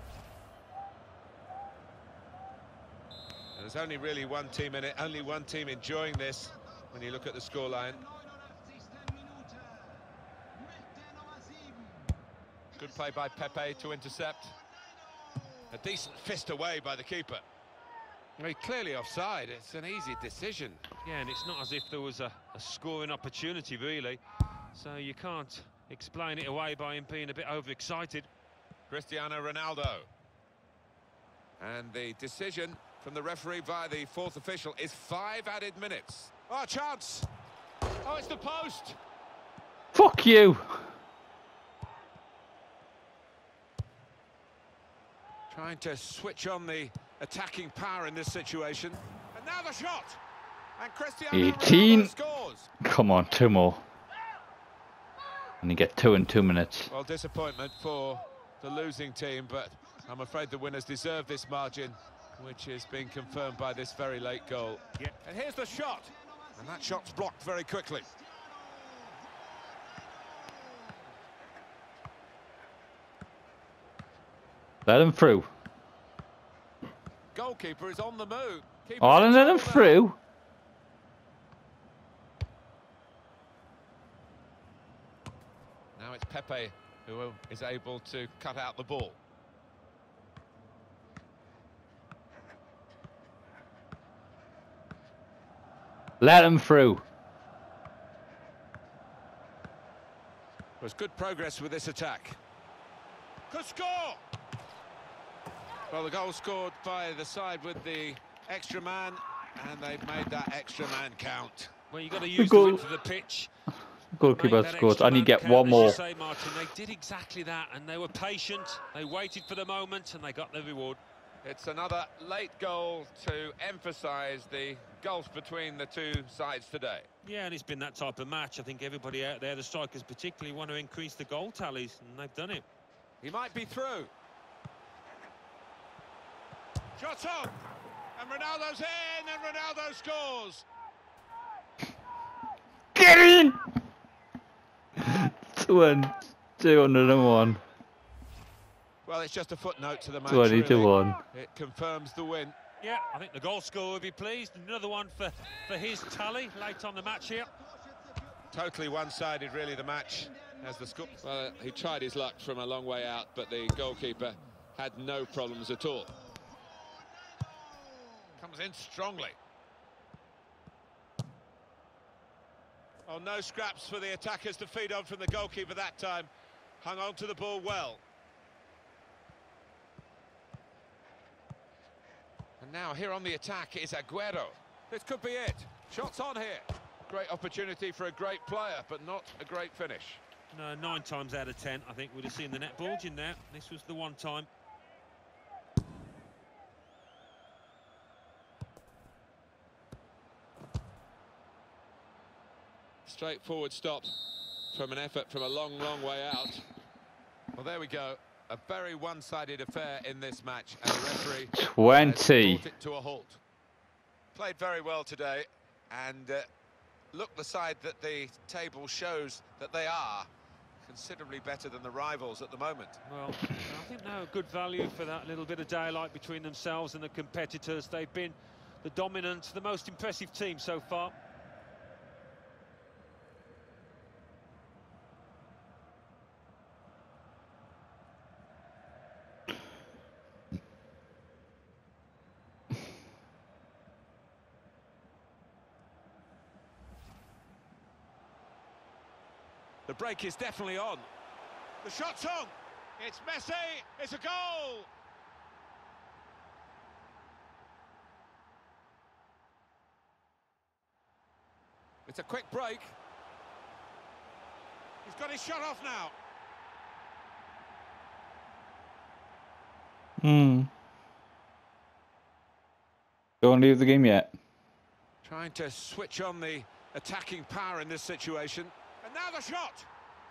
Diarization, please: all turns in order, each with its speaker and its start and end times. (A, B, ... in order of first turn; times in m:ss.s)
0:03.5-0:08.0 A
0:12.7-0:14.6 A
0:15.7-0:17.4 A
0:18.4-0:20.8 A
0:21.0-0:24.2 B
0:24.7-0:28.3 B
0:28.9-0:30.1 A
0:31.6-0:37.3 A
0:38.0-0:39.0 A
0:39.9-0:40.8 C
0:45.5-0:50.2 A
0:50.8-0:52.7 A
0:51.3-0:52.1 C
0:52.8-0:53.8 C
0:55.6-0:56.9 C
0:56.9-1:08.1 A
1:14.8-1:15.5 C
1:17.3-1:19.9 A
1:19.0-1:20.2 C
1:26.0-1:29.2 A
1:36.2-1:37.0 C
1:40.8-1:42.4 A
1:43.5-1:44.2 A
1:45.9-1:51.7 A
1:51.9-1:53.5 B
1:52.3-1:52.8 C
1:54.1-1:56.0 C
1:54.3-2:01.0 B
2:01.4-2:07.1 A
2:07.2-2:12.6 B
2:13.2-2:14.1 A
2:17.0-2:17.6 A
2:18.2-2:20.6 A
2:22.9-2:23.6 C
2:25.0-2:27.6 C
2:29.0-2:32.6 A
2:30.3-2:31.2 C
2:32.8-2:37.5 B
2:38.5-2:46.1 A
2:48.4-2:49.4 A
2:53.1-2:58.0 A
3:02.6-3:10.2 A
3:10.5-3:14.5 B
3:23.0-3:24.1 A
3:24.7-3:26.6 A
3:27.6-3:33.4 A
3:31.5-3:32.6 C
3:34.3-3:36.5 A
3:37.1-3:40.3 A
3:40.8-3:43.0 A
3:43.0-3:51.1 B
4:09.9-4:11.1 A
4:11.8-4:14.9 A
4:22.0-4:23.0 A
4:25.0-4:26.1 A
4:30.2-4:30.7 C
4:33.4-4:34.3 C
4:35.2-4:39.9 A